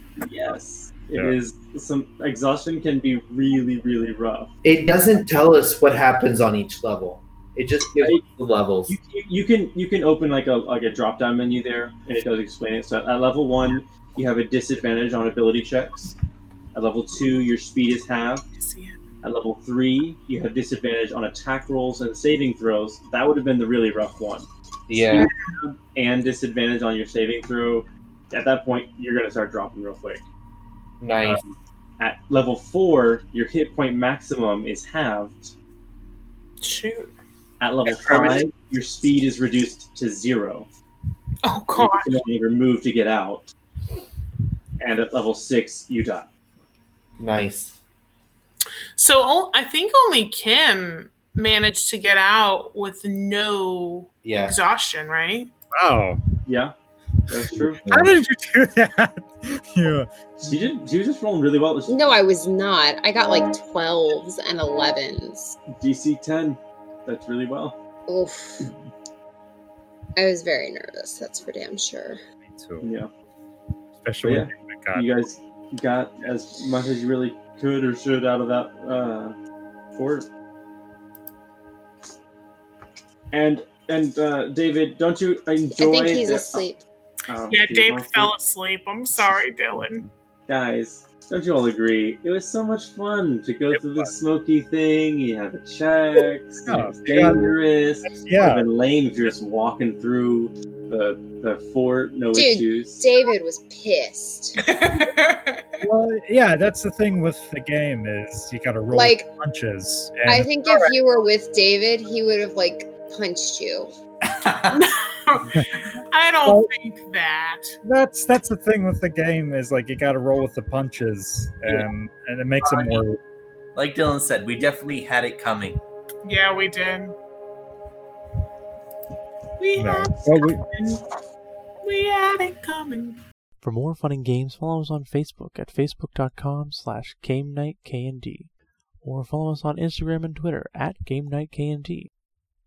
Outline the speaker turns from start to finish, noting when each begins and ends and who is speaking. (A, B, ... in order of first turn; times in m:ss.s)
0:00.2-0:04.5 A
0:04.6-0:08.9 B
0:08.0-0:08.2 A
0:08.9-0:16.2 A
0:16.7-0:18.4 A
0:18.5-0:19.0 C
0:19.2-0:24.5 A
0:24.9-0:25.3 B
0:25.1-0:30.2 A
0:31.0-0:31.4 B
0:31.2-0:35.5 A
0:36.6-0:37.1 C
0:37.6-0:40.7 A
0:38.0-0:38.4 B
0:41.4-0:42.1 C
0:41.8-0:43.5 A
0:44.8-0:46.3 A
0:47.2-0:47.8 B
0:49.0-0:55.5 C
0:54.2-0:54.6 B
0:55.7-0:56.2 D
0:56.4-0:56.7 A
0:57.3-0:57.8 A
0:57.8-0:58.1 B
0:57.8-1:00.6 D
1:00.4-1:02.2 A
1:01.9-1:05.6 E
1:05.8-1:07.8 A
1:08.1-1:08.7 E
1:10.2-1:12.2 E
1:12.5-1:12.9 D
1:12.8-1:13.1 A
1:14.0-1:15.1 D
1:14.2-1:19.4 A
1:19.9-1:20.3 A
1:23.3-1:26.6 A
1:25.8-1:26.8 E
1:27.3-1:28.3 A
1:27.5-1:30.1 C
1:30.5-1:43.0 A
1:33.8-1:34.1 D
1:36.6-1:37.4 D
1:38.2-1:38.6 D
1:42.3-1:44.6 E
1:44.6-1:45.8 C
1:45.8-1:50.9 D
1:48.9-1:49.3 E
1:50.3-1:53.9 E
1:54.4-1:54.8 F
1:54.7-1:57.8 C
1:57.8-2:03.2 D
2:02.6-2:03.0 C
2:03.7-2:05.8 F
2:06.2-2:07.1 C
2:09.6-2:11.0 C
2:09.8-2:10.7 D
2:11.8-2:13.2 C
2:13.6-2:22.1 G